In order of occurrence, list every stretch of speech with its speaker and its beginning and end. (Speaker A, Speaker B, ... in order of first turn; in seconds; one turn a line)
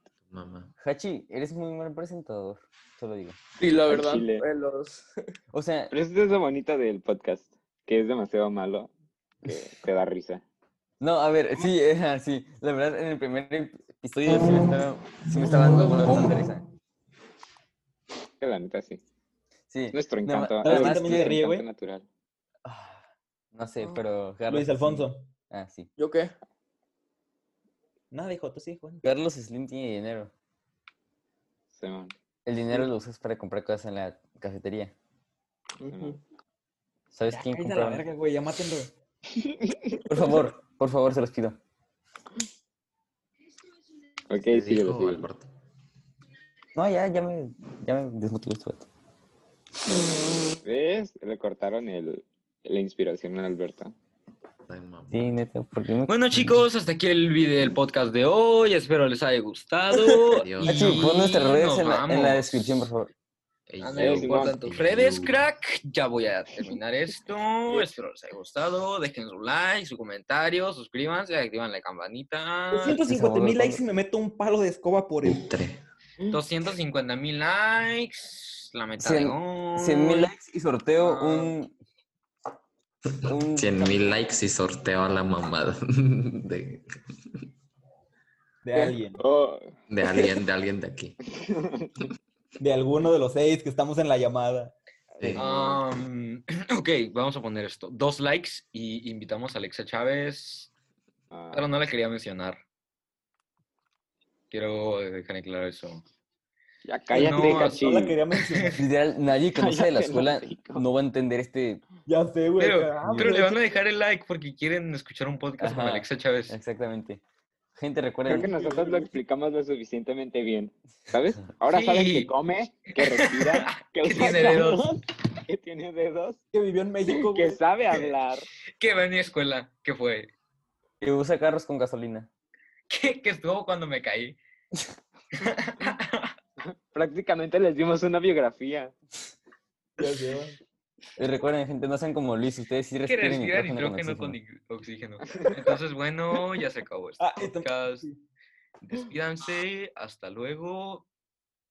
Speaker A: 0.2-0.7
Speaker B: 0.8-3.4
Speaker C: 3.6-5.1
Speaker D: 3.9-4.4
Speaker B: 5.5-5.9
Speaker D: 5.9-8.9
Speaker D: 9.4-10.4
Speaker B: 11.0-16.6
Speaker D: 18.4-19.0
Speaker B: 19.7-21.3
Speaker D: 19.9-22.1
Speaker E: 20.6-21.7
Speaker B: 22.6-25.9
Speaker E: 24.5-25.3
Speaker C: 26.0-26.3
Speaker E: 28.1-29.0
Speaker B: 29.0-30.3
Speaker D: 31.7-32.1
Speaker B: 32.5-34.9
Speaker C: 35.8-36.2
Speaker D: 35.9-36.1
Speaker B: 37.1-38.0
Speaker E: 37.3-38.9
Speaker D: 39.3-40.0
Speaker B: 40.1-41.6
Speaker D: 44.3-45.2
Speaker A: 44.4-45.5
Speaker B: 46.7-48.9
Speaker D: 50.6-53.9
Speaker A: 54.6-55.4
Speaker B: 55.1-56.2
Speaker F: 56.1-62.7
Speaker A: 60.3-61.0
Speaker B: 60.6-63.1
Speaker A: 63.7-65.4
Speaker F: 63.8-73.0
Speaker D: 64.0-64.5
Speaker E: 72.7-75.5
Speaker B: 73.0-73.8
Speaker A: 75.2-75.8
Speaker F: 76.3-80.3
Speaker B: 79.0-81.7
Speaker F: 81.0-81.5
Speaker B: 83.3-83.9
Speaker A: 83.4-87.0
Speaker E: 88.6-89.2
Speaker D: 89.2-89.7
Speaker A: 89.9-91.2
Speaker D: 91.3-91.9
Speaker E: 92.6-94.7
Speaker D: 95.1-95.8
Speaker F: 95.4-100.7
Speaker D: 101.3-101.7
Speaker F: 101.5-102.6
Speaker F: 104.5-106.0
Speaker D: 106.8-108.2
Speaker F: 107.1-107.8
Speaker E: 107.2-108.8
Speaker F: 108.3-108.7
Speaker B: 108.8-111.8
Speaker D: 109.5-110.8
Speaker E: 112.0-113.6
Speaker F: 112.6-116.5
Speaker B: 113.0-113.3
Speaker B: 115.6-117.2
Speaker B: 117.8-118.5
Speaker D: 118.2-126.4
Speaker E: 118.3-119.1
Speaker F: 121.7-122.3
Speaker F: 122.8-124.9
Speaker E: 126.5-127.6
Speaker D: 127.1-128.5
Speaker F: 128.8-130.3
Speaker B: 131.0-132.3
Speaker F: 132.9-134.4
Speaker F: 135.4-136.3
Speaker D: 136.9-138.9
Speaker E: 140.0-140.6
Speaker B: 141.2-144.3
Speaker F: 143.1-148.1
Speaker E: 147.2-148.2
Speaker F: 148.8-151.1